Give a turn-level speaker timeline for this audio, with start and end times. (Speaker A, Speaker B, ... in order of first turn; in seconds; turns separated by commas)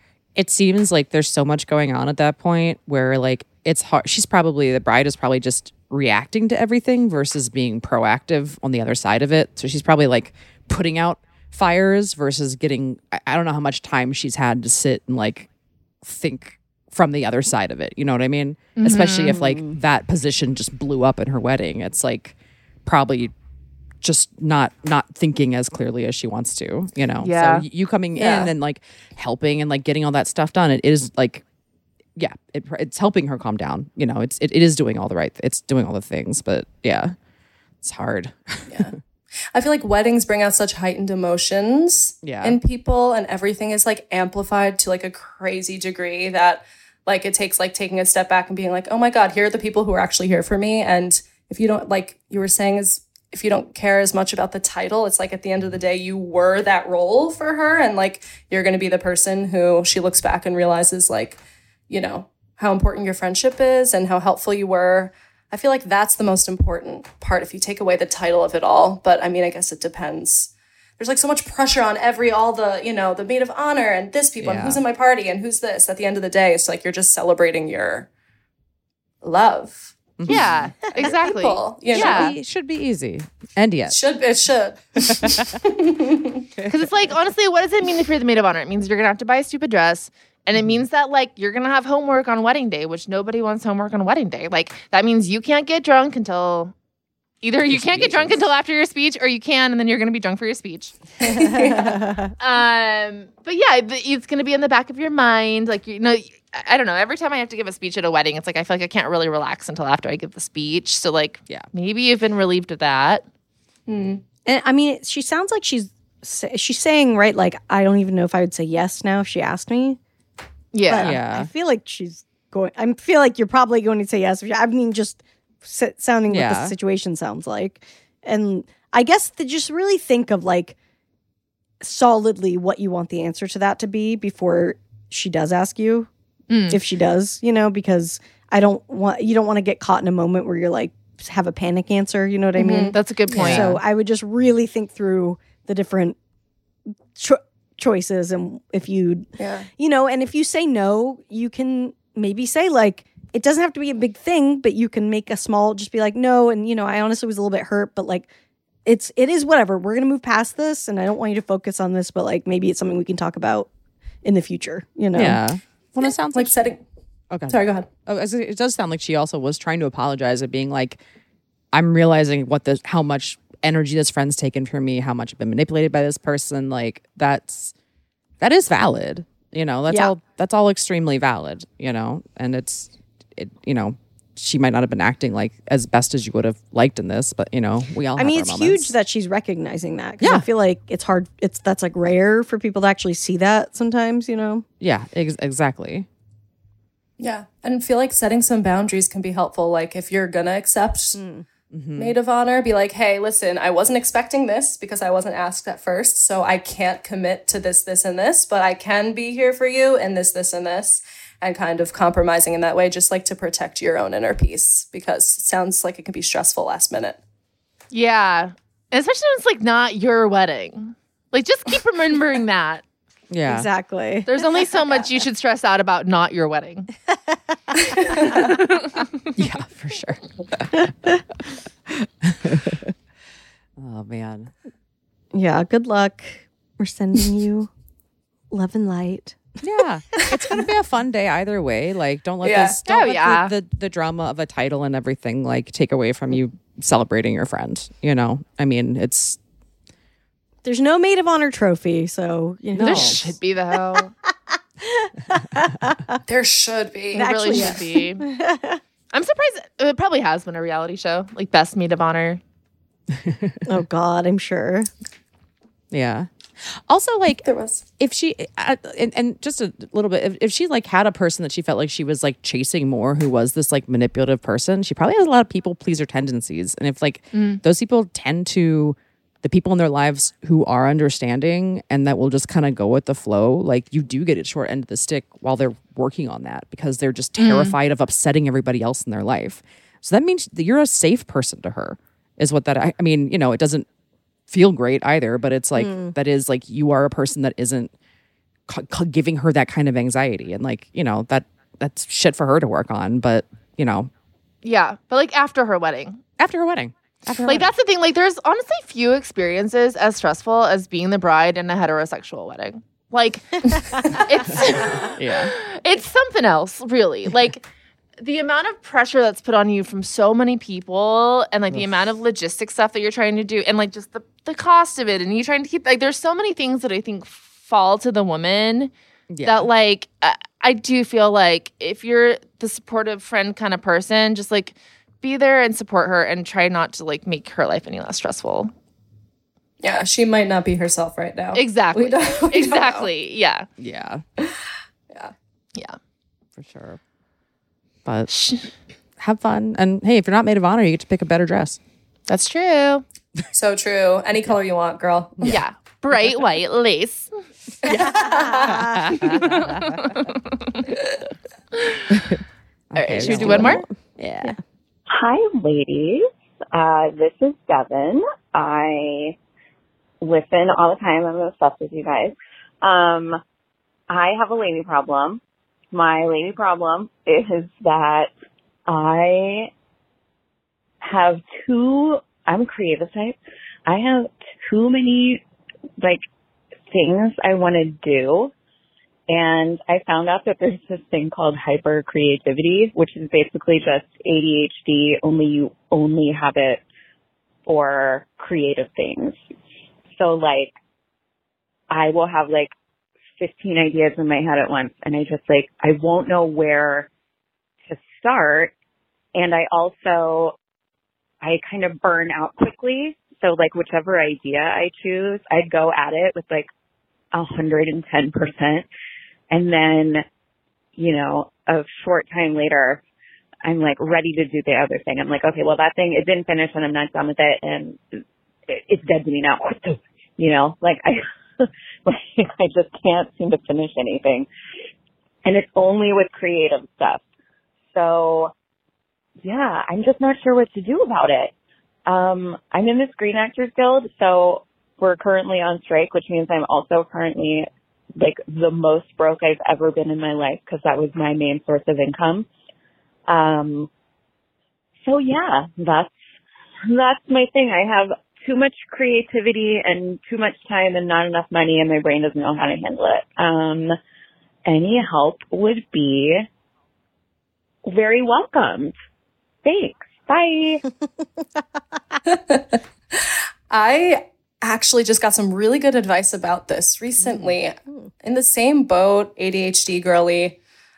Speaker A: 0.3-15.5, Speaker A: 16.0-23.3, Speaker B: 18.8-19.4, Speaker C: 19.3-19.7, Speaker A: 24.0-31.4, Speaker B: 27.2-27.6, Speaker A: 32.1-37.1, Speaker A: 37.8-38.9, Speaker D: 38.7-38.9, Speaker D: 39.5-78.1, Speaker A: 42.2-42.6, Speaker A: 74.4-74.8, Speaker D: 79.2-80.0, Speaker A: 80.2-80.9, Speaker B: 80.3-82.3, Speaker D: 81.1-82.3, Speaker A: 81.9-84.0, Speaker D: 83.9-86.4, Speaker A: 85.1-85.6, Speaker A: 86.5-86.9, Speaker B: 86.7-96.7, Speaker A: 90.5-90.8, Speaker B: 97.4-100.9, Speaker A: 97.7-98.5, Speaker D: 101.2-102.0, Speaker C: 101.3-102.3, Speaker B: 102.4-113.2, Speaker D: 113.9-114.2, Speaker C: 114.4-120.0, Speaker B: 120.7-121.1, Speaker C: 120.9-130.8, Speaker A: 121.0-121.5, Speaker A: 126.3-126.7, Speaker C: 131.8-136.1, Speaker B: 136.5-136.8, Speaker C: 136.7-146.2, Speaker D: 142.6-142.9, Speaker B: 142.9-143.7, Speaker A: 143.3-143.8, Speaker C: 147.2-158.3, Speaker D: 149.4-149.7, Speaker C: 158.8-163.7, Speaker C: 164.2-165.4, Speaker A: 165.1-166.8, Speaker D: 166.0-166.8, Speaker A: 167.3-171.0, Speaker D: 167.5-167.9, Speaker A: 171.7-177.7, Speaker A: 178.4-188.9, Speaker C: 179.9-180.1, Speaker C: 188.2-194.6, Speaker A: 190.2-190.5, Speaker A: 194.8-196.1, Speaker D: 197.2-201.2, Speaker C: 201.2-201.4, Speaker A: 201.7-202.2, Speaker D: 202.0-217.2, Speaker B: 217.9-222.8, Speaker A: 223.3-223.7, Speaker C: 223.4-224.3, Speaker B: 224.3-226.9, Speaker C: 227.7-228.4, Speaker B: 228.5-229.0, Speaker A: 229.3-230.7, Speaker C: 230.8-231.2, Speaker A: 232.2-232.9, Speaker A: 233.8-234.5, Speaker C: 235.3-237.7, Speaker C: 238.5-239.6, Speaker A: 239.6-249.4, Speaker C: 240.2-240.5, Speaker D: 242.4-242.8, Speaker B: 242.8-243.5, Speaker C: 250.6-253.3, Speaker A: 252.7-253.2, Speaker B: 252.8-254.1, Speaker C: 254.8-256.2, Speaker D: 256.2-257.7, Speaker B: 257.1-258.2, Speaker C: 257.1-258.8, Speaker B: 259.1-262.4, Speaker A: 263.1-263.6, Speaker C: 263.6-264.9, Speaker A: 265.9-267.4, Speaker D: 267.4-267.8, Speaker A: 268.0-293.9, Speaker B: 277.3-277.6, Speaker B: 287.4-287.8, Speaker A: 294.5-297.9, Speaker C: 295.8-296.1, Speaker A: 298.7-304.1, Speaker B: 304.6-306.2, Speaker A: 306.4-307.7, Speaker B: 307.4-317.6, Speaker A: 315.0-315.5, Speaker B: 318.2-328.9, Speaker A: 329.3-329.7, Speaker B: 329.4-338.7, Speaker D: 339.8-343.1, Speaker B: 341.5-343.7, Speaker A: 343.8-344.2, Speaker A: 346.6-347.0, Speaker B: 348.3-348.7, Speaker A: 349.2-351.8, Speaker B: 352.3-353.0, Speaker D: 353.5-355.4, Speaker B: 355.4-357.3, Speaker C: 357.8-359.0, Speaker A: 357.8-360.2, Speaker D: 358.1-358.9, Speaker B: 359.3-360.9, Speaker A: 362.1-362.4, Speaker A: 362.9-364.6, Speaker B: 362.9-363.8, Speaker C: 363.2-363.9, Speaker E: 365.1-369.4, Speaker E: 370.2-373.4, Speaker E: 374.1-375.4, Speaker E: 375.9-378.3, Speaker E: 378.9-379.7, Speaker E: 381.0-385.4, Speaker E: 386.9-388.5, Speaker E: 389.3-396.8, Speaker E: 397.6-399.4, Speaker E: 400.1-400.7, Speaker E: 401.9-402.7, Speaker E: 403.4-407.1, Speaker E: 407.9-408.7, Speaker E: 409.3-410.5, Speaker E: 411.4-416.7, Speaker E: 417.3-418.9, Speaker E: 419.5-420.2, Speaker E: 420.9-423.0, Speaker E: 423.6-428.0, Speaker E: 428.7-434.5, Speaker E: 435.4-437.2, Speaker E: 437.9-438.5, Speaker E: 439.4-441.5, Speaker E: 442.1-452.5, Speaker E: 453.3-453.9, Speaker E: 455.0-456.1, Speaker E: 456.9-463.9, Speaker E: 464.6-466.4, Speaker E: 467.8-468.9, Speaker E: 469.6-470.8, Speaker D: 472.3-480.6